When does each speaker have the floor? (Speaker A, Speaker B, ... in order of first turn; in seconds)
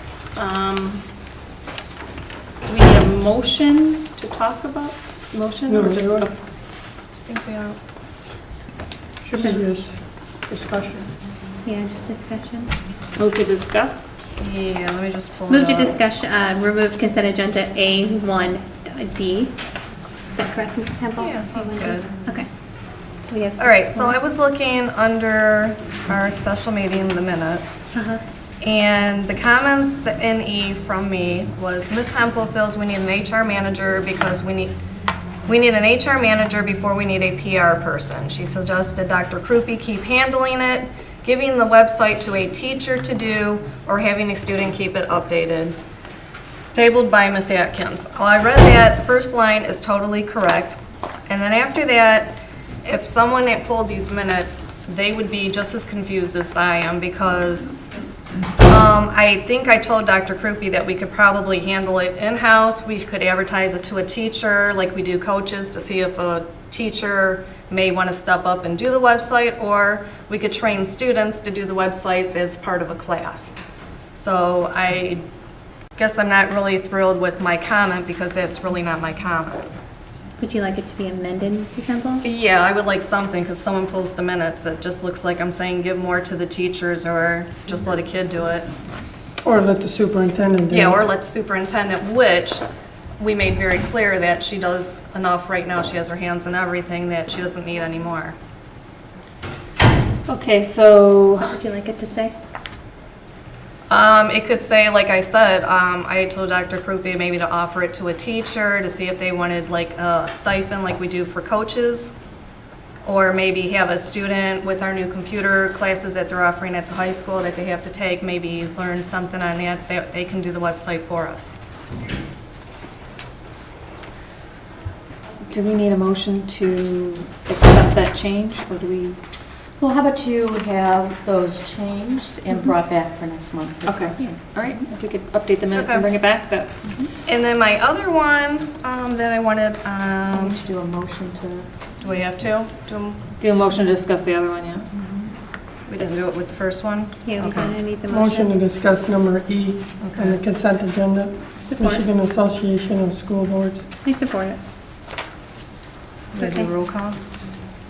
Speaker A: 0.3-1.0, 2.7-6.4, 13.2-14.1, 100.3-101.6, 125.5-129.2, 133.8-136.7, 143.4-144.9
Speaker B: 5.7-6.3, 9.2-9.9, 10.5-11.1, 89.4-91.0, 148.1-153.8
Speaker C: 7.3-7.8, 14.4-15.9, 21.2-22.1, 23.6-27.9, 28.6-34.7, 35.5-45.8, 46.7-57.7, 58.6-73.6, 74.2-75.2, 76.0-79.7, 82.2-88.7, 90.7-92.6, 93.2-98.4, 103.9-112.1, 113.0-121.5, 135.7-136.1, 137.3-140.6, 142.0-143.2, 145.9-147.8, 150.0-150.4, 156.3-157.2
Speaker D: 9.3-9.6, 11.7-12.7, 15.5-19.6, 20.4-22.5, 23.3-24.2, 27.9-28.2, 80.4-82.2, 101.4-102.3, 147.3-148.5, 151.7-152.1, 154.0-154.6, 156.4-156.7
Speaker E: 129.8-134.5, 140.3-141.7